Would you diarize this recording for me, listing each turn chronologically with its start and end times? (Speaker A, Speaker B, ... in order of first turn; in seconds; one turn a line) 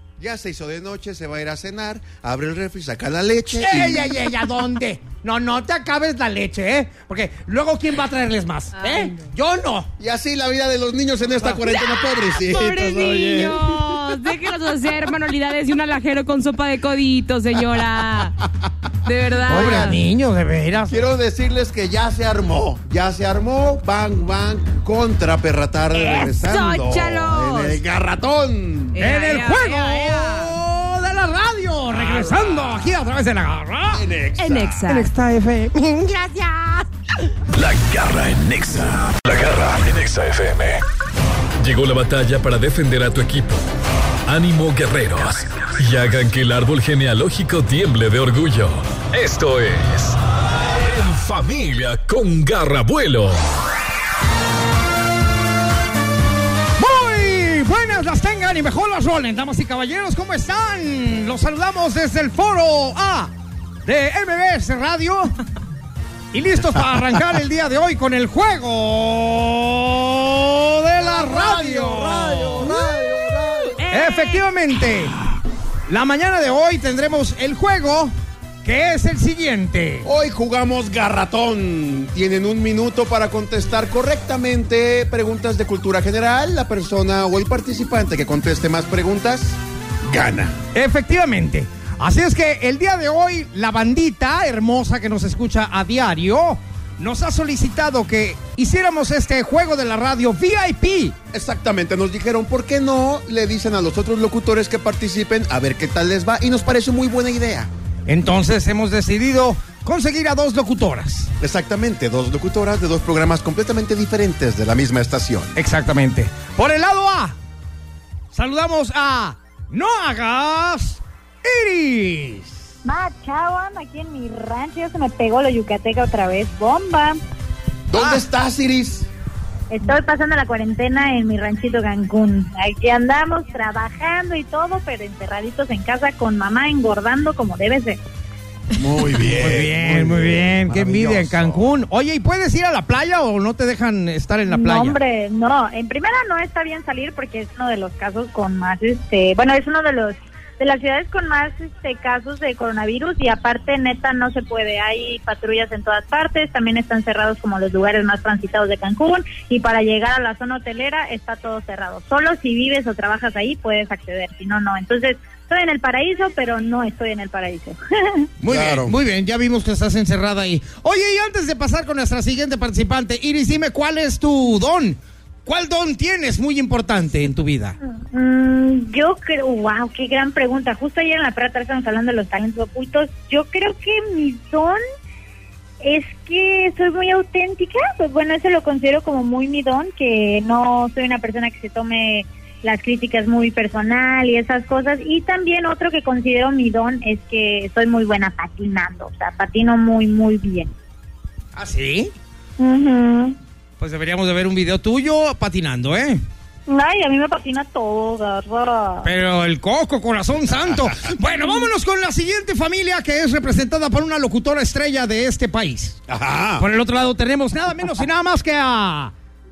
Speaker A: 0.2-4.1
Speaker B: 3.6-9.9
Speaker C: 8.8-9.2
Speaker A: 10.0-14.0
Speaker C: 11.7-18.4
Speaker C: 19.0-20.0
Speaker B: 19.5-21.0
Speaker A: 19.5-19.9
Speaker A: 20.9-29.0
Speaker C: 25.9-27.8
Speaker C: 28.9-30.5
Speaker B: 29.0-34.0
Speaker A: 31.9-32.7
Speaker A: 33.9-34.8
Speaker C: 34.4-35.1
Speaker B: 34.9-36.9
Speaker D: 37.5-40.8
Speaker D: 41.6-43.7
Speaker D: 44.3-50.2
Speaker D: 50.8-53.4
Speaker B: 56.8-63.3
Speaker B: 63.9-65.4
Speaker B: 66.3-72.8
Speaker A: 71.0-73.8
Speaker C: 73.8-74.4
Speaker B: 73.9-75.2
Speaker B: 75.9-78.1
Speaker B: 78.6-80.1
Speaker A: 80.0-90.6
Speaker B: 90.7-101.2
Speaker A: 101.3-107.7
Speaker B: 108.1-111.3
Speaker A: 111.4-115.6
Speaker B: 115.6-117.4
Speaker B: 118.3-122.7
Speaker E: 122.8-127.2
Speaker A: 127.9-129.1
Speaker B: 128.0-128.2
Speaker E: 129.7-138.0
Speaker A: 138.8-141.8
Speaker B: 139.3-145.0
Speaker E: 144.5-168.3
Speaker B: 168.4-177.8
Speaker A: 168.4-168.9
Speaker E: 177.9-184.8
Speaker E: 185.8-200.7
Speaker B: 201.6-202.1
Speaker E: 202.6-203.4
Speaker B: 203.8-206.2
Speaker E: 206.7-209.1
Speaker B: 209.0-216.0
Speaker A: 216.1-216.7
Speaker B: 216.6-219.1